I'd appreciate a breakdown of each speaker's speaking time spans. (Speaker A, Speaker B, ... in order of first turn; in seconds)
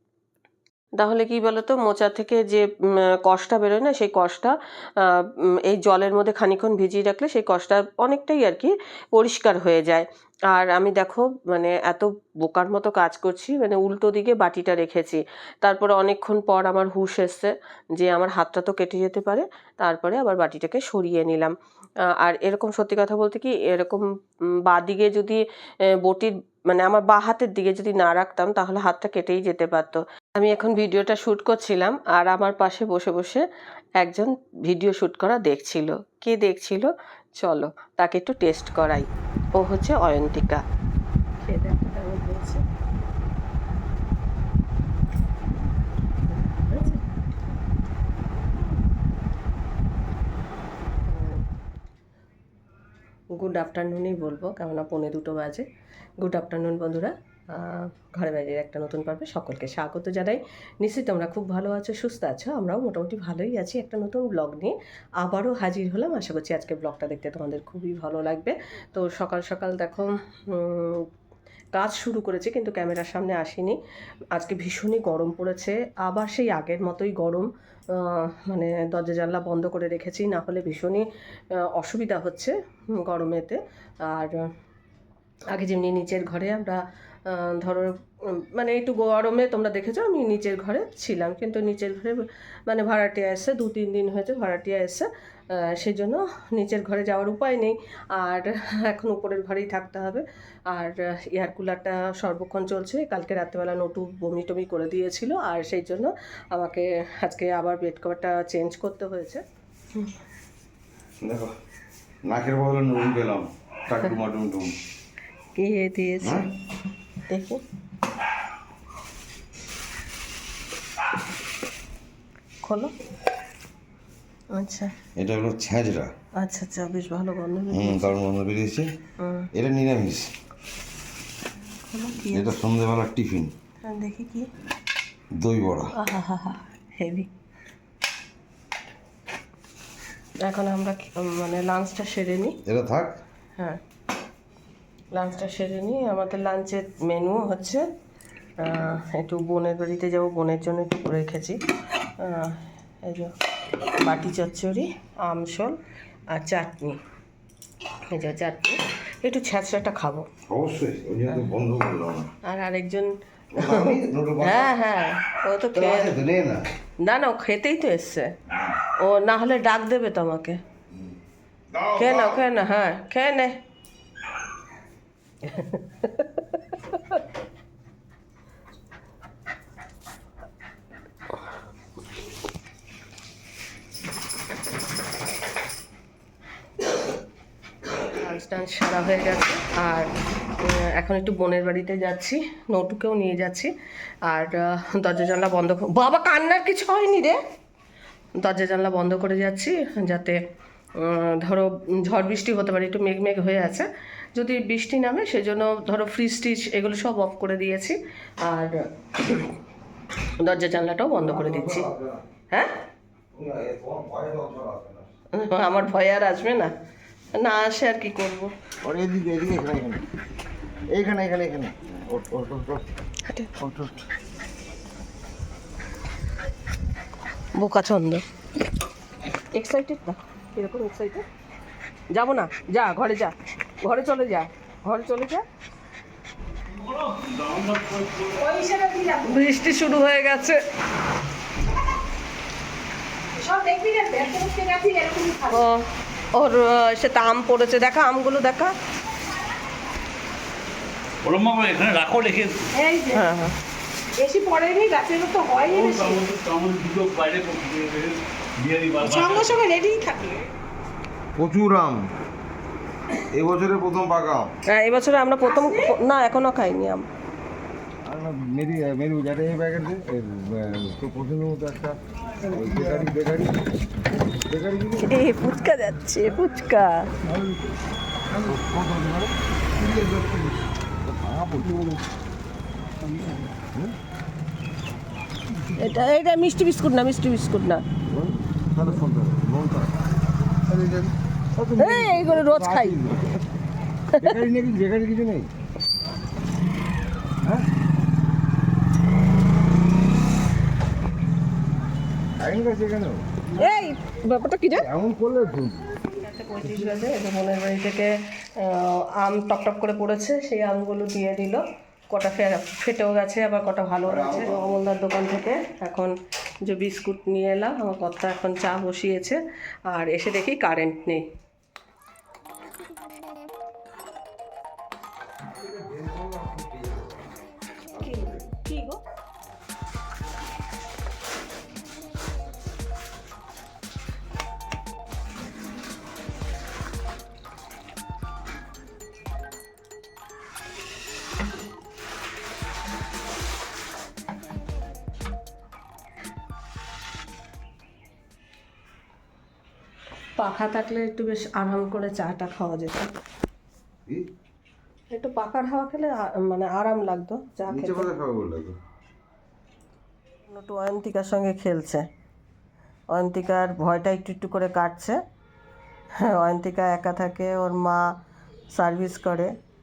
Speaker A: 1.0-21.5, 22.1-24.0, 24.6-33.5, 34.0-40.6, 41.4-42.6, 46.3-47.1, 51.1-51.4, 53.3-55.6, 56.2-71.1, 71.7-73.8, 74.3-81.1, 81.7-84.4, 85.5-109.4, 115.5-116.5, 117.3-117.6, 122.6-122.9, 124.5-124.9, 126.4-128.2, 129.2-129.5, 131.8-132.5, 133.8-134.5, 135.9-137.3, 140.4-142.6, 145.1-147.8, 148.6-151.6, 152.2-155.8, 156.3-157.0, 158.1-160.2, 162.4-166.2, 167.0-168.3, 169.0-170.6, 172.0-173.6, 175.4-177.2, 188.1-193.7, 194.2-197.4, 198.4-200.4, 201.0-209.6, 210.4-211.9, 215.3-216.7, 217.3-218.5, 227.5-228.2, 229.5-231.2, 232.1-235.4, 239.1-240.6, 245.4-248.7, 253.1-253.5, 264.6-267.1, 275.0-277.1, 285.7-287.8, 291.8-293.0, 294.1-294.4, 303.6-304.9, 306.1-316.1, 316.6-321.3, 328.0-329.0, 350.4-353.1, 355.1-358.1, 360.5-362.0, 363.1-365.2, 366.1-368.1, 368.7-369.5
Speaker B: 111.2-111.5, 112.2-114.7, 116.2-116.5, 125.2-126.1, 127.7-128.9, 129.5-130.3, 132.3-133.5, 135.4-135.9, 142.7-143.2, 160.5-162.3, 163.5-164.8, 165.7-166.6, 168.5-168.8, 171.7-172.5, 211.2-212.2, 213.3-215.1, 218.8-220.0, 220.9-222.8, 223.6-224.1, 261.3-262.1, 263.3-264.5, 268.0-273.6, 274.5-275.2, 277.3-277.6, 278.3-280.5, 281.0-282.0, 288.1-290.0, 290.7-293.4, 294.2-295.5, 302.4-303.2, 304.7-305.9, 306.6-306.9, 314.1-314.6, 325.5-327.4, 327.9-328.4, 357.7-358.8
Speaker C: 236.7-238.5, 251.2-252.7, 255.5-259.5
Speaker D: 238.4-239.3, 243.3-245.6, 252.7-253.2, 254.2-256.2, 259.0-260.4